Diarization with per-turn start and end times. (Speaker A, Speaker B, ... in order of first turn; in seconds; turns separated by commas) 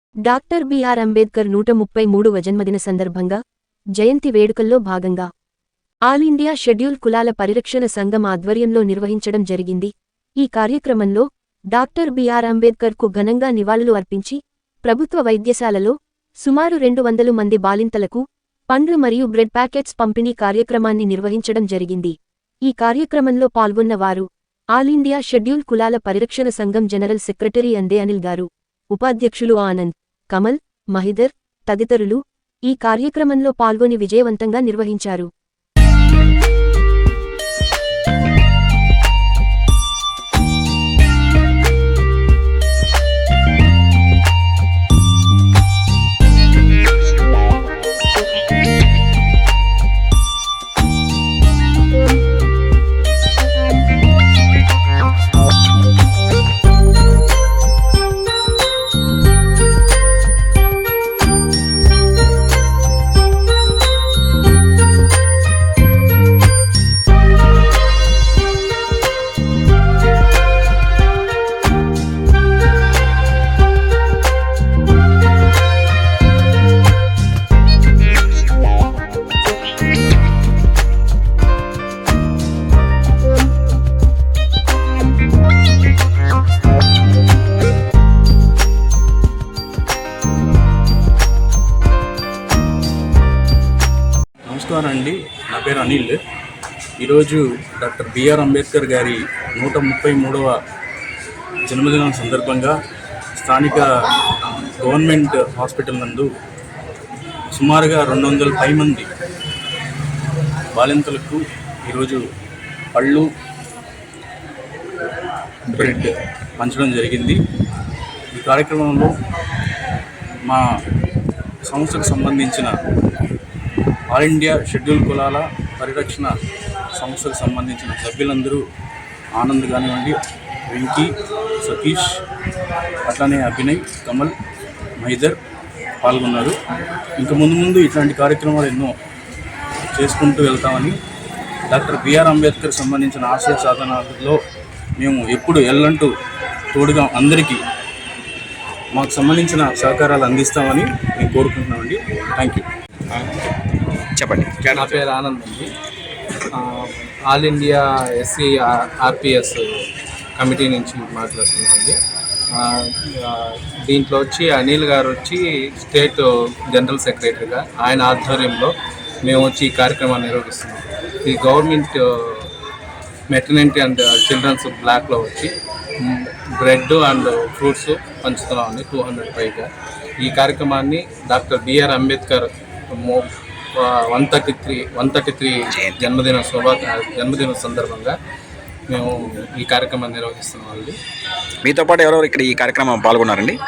Speaker A: 0.2-3.4, Speaker A: 4.0-5.3, Speaker A: 6.1-35.3, Speaker B: 94.5-96.2, Speaker B: 97.0-100.6, Speaker B: 101.7-102.8, Speaker B: 103.3-106.3, Speaker B: 107.5-109.1, Speaker B: 110.7-112.2, Speaker B: 112.9-113.3, Speaker B: 115.7-117.4, Speaker B: 118.3-119.2, Speaker B: 121.6-122.8, Speaker B: 124.1-126.4, Speaker B: 126.9-128.6, Speaker B: 129.3-132.2, Speaker B: 133.1-134.3, Speaker B: 135.0-135.4, Speaker B: 136.0-136.6, Speaker B: 137.2-139.0, Speaker B: 139.9-141.0, Speaker B: 141.7-144.4, Speaker B: 145.0-146.1, Speaker B: 146.7-147.6, Speaker B: 148.9-152.7, Speaker C: 154.2-154.9, Speaker B: 154.6-155.0, Speaker D: 154.8-155.7, Speaker D: 156.5-162.0, Speaker D: 162.5-172.5, Speaker D: 173.3-188.2, Speaker C: 185.7-186.0, Speaker D: 188.9-191.0, Speaker C: 191.6-193.6